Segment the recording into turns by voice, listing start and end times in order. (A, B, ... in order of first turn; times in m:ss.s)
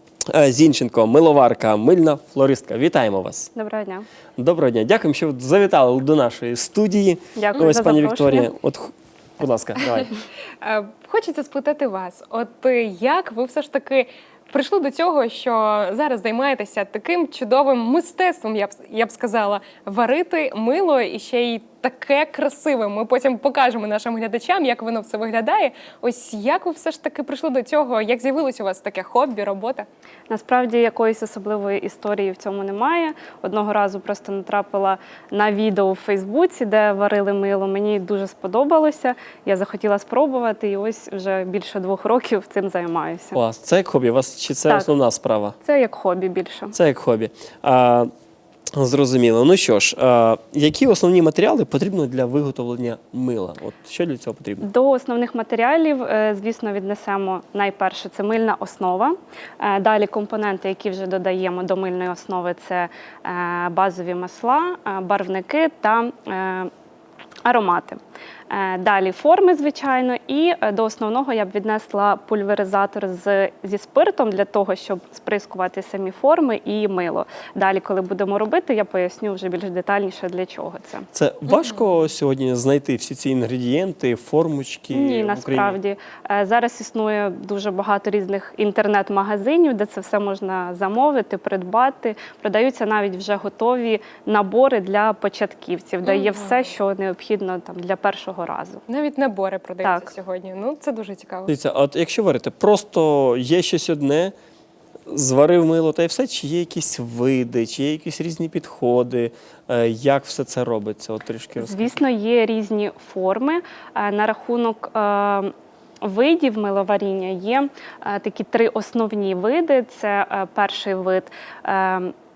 0:00.3-0:03.5 A
0:03.5-0:04.0 B
0:04.4-0:10.1 A
0:07.4-0:08.5 B
0:10.6-0:29.9 C
0:30.3-0:43.4 B
0:43.3-0:45.6 A
0:45.6-0:46.8 B
0:46.7-0:48.1 A
0:48.7-0:54.7 A
0:54.6-1:06.7 B
1:07.4-1:08.0 B
1:08.5-1:21.1 B
1:21.1-1:25.8 A
1:21.5-1:21.8 C
1:24.9-1:38.8 B
1:36.0-1:36.6 C
1:38.9-1:41.5 C
1:39.8-1:40.1 B
1:41.5-1:44.3 A
1:45.1-1:51.9 A
1:51.6-2:02.1 B